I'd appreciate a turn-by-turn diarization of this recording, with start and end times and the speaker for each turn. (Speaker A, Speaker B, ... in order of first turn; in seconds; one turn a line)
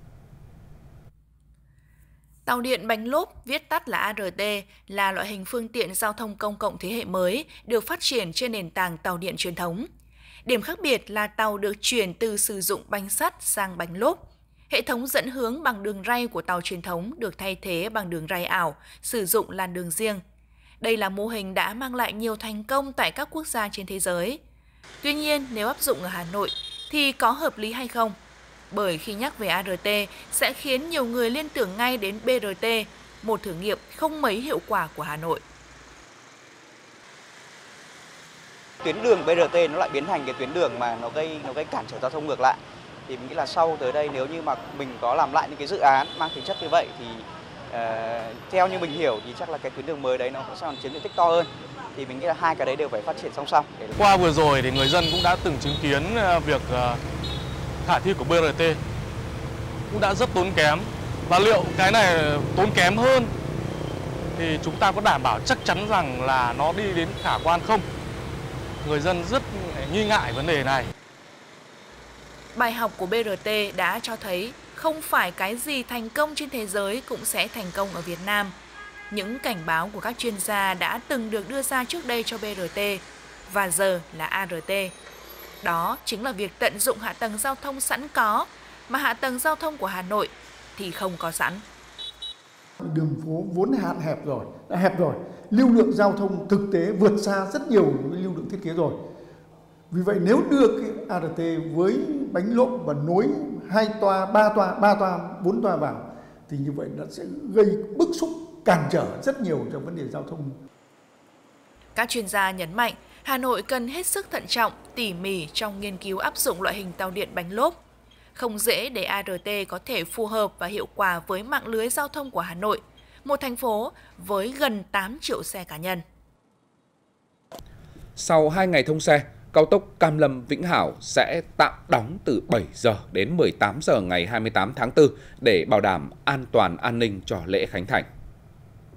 Speaker A: 2.5-9.9
Speaker A: 10.5-14.2
Speaker A: 14.7-20.2
Speaker A: 20.8-24.4
Speaker A: 25.0-28.2
Speaker A: 28.7-35.4
Speaker B: 38.8-54.2
Speaker C: 54.3-57.0
Speaker C: 57.9-58.8
Speaker C: 59.9-63.3
Speaker C: 64.4-67.8
Speaker C: 68.8-70.9
Speaker A: 72.5-78.5
Speaker A: 79.1-84.9
Speaker A: 85.6-91.6
Speaker D: 92.8-99.0
Speaker D: 99.9-110.5
Speaker A: 112.0-117.8
Speaker A: 118.3-126.0
Speaker E: 128.2-138.1